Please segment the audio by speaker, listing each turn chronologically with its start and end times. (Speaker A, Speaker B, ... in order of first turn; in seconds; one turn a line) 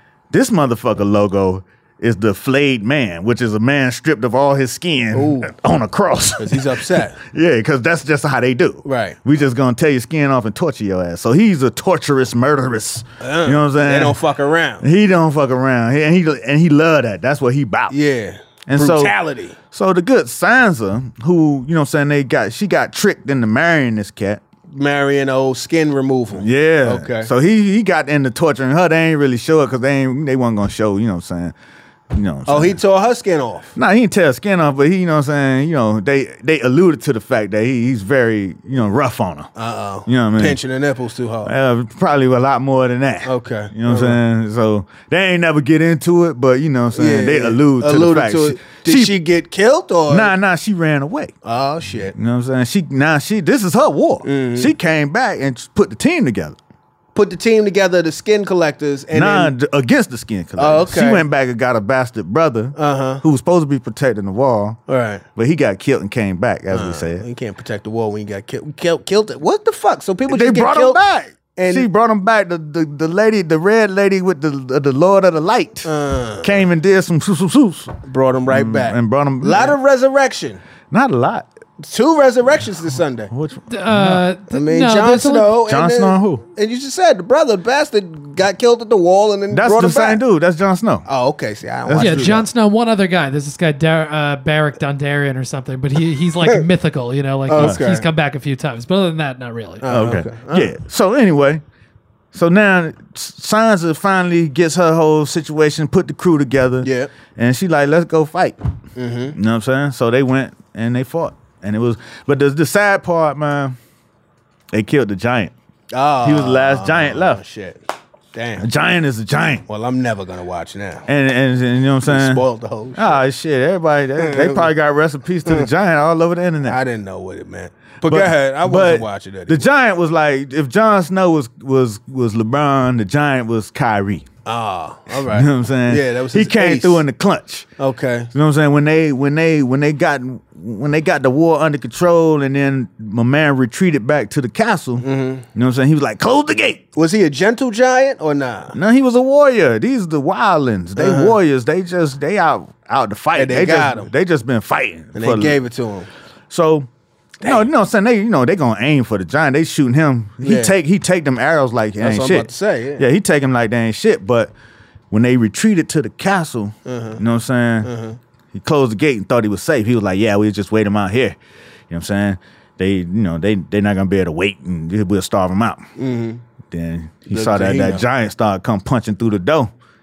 Speaker A: 0.3-14.2
Speaker B: 5.1-5.5
Speaker B: 6.4-7.2
Speaker B: 8.8-9.2
Speaker B: 13.2-14.8
Speaker A: 14.8-18.0
Speaker B: 17.9-19.6
Speaker A: 18.7-19.1
Speaker A: 19.7-24.4
Speaker B: 24.7-27.3
Speaker A: 26.3-31.5
Speaker A: 32.1-32.8
Speaker B: 32.5-33.7
Speaker A: 33.7-39.5
Speaker B: 39.5-41.5
Speaker A: 40.0-40.6
Speaker A: 41.4-49.1
Speaker B: 43.2-44.2
Speaker B: 46.9-50.3
Speaker A: 50.1-51.3
Speaker B: 51.4-52.1
Speaker A: 52.1-56.6
Speaker B: 54.2-54.7
Speaker B: 57.1-59.5
Speaker A: 59.1-64.8
Speaker B: 60.6-61.2
Speaker B: 62.8-63.2
Speaker B: 64.9-65.2
Speaker A: 65.3-67.2
Speaker B: 66.7-71.0
Speaker A: 70.3-75.9
Speaker B: 71.5-71.9
Speaker B: 75.8-76.6
Speaker A: 76.4-79.8
Speaker B: 78.0-80.6
Speaker A: 80.9-81.5
Speaker B: 81.8-83.3
Speaker A: 83.3-84.2
Speaker C: 83.7-85.5
Speaker B: 84.5-90.2
Speaker A: 85.7-86.4
Speaker A: 89.5-91.0
Speaker B: 91.0-92.4
Speaker A: 91.8-92.5
Speaker C: 92.0-100.0
Speaker B: 97.5-98.0
Speaker A: 97.5-97.8
Speaker B: 99.8-100.7
Speaker A: 99.9-101.6
Speaker A: 102.3-108.6
Speaker B: 106.8-107.1
Speaker B: 109.0-109.3
Speaker A: 109.3-113.8
Speaker A: 114.7-115.5
Speaker B: 115.9-117.8
Speaker A: 116.2-117.4
Speaker B: 118.3-118.7
Speaker A: 118.6-119.6
Speaker B: 119.7-121.1
Speaker A: 121.1-122.4
Speaker B: 122.0-123.2
Speaker A: 122.9-126.8
Speaker B: 124.2-124.7
Speaker B: 126.6-129.7
Speaker A: 128.0-134.2
Speaker B: 134.4-137.0
Speaker A: 135.2-137.7
Speaker B: 137.8-138.3
Speaker A: 138.3-146.8
Speaker B: 145.0-145.4
Speaker B: 146.9-148.8
Speaker A: 148.7-155.6
Speaker B: 151.0-151.4
Speaker B: 153.3-154.1
Speaker B: 155.1-156.1
Speaker A: 156.5-156.9
Speaker A: 157.4-164.5
Speaker B: 160.4-160.7
Speaker B: 162.0-163.1
Speaker A: 165.1-167.9
Speaker B: 166.8-167.2
Speaker B: 167.8-168.2
Speaker A: 168.5-171.4
Speaker A: 171.9-175.9
Speaker B: 176.0-176.4
Speaker A: 176.7-179.7
Speaker B: 177.3-178.1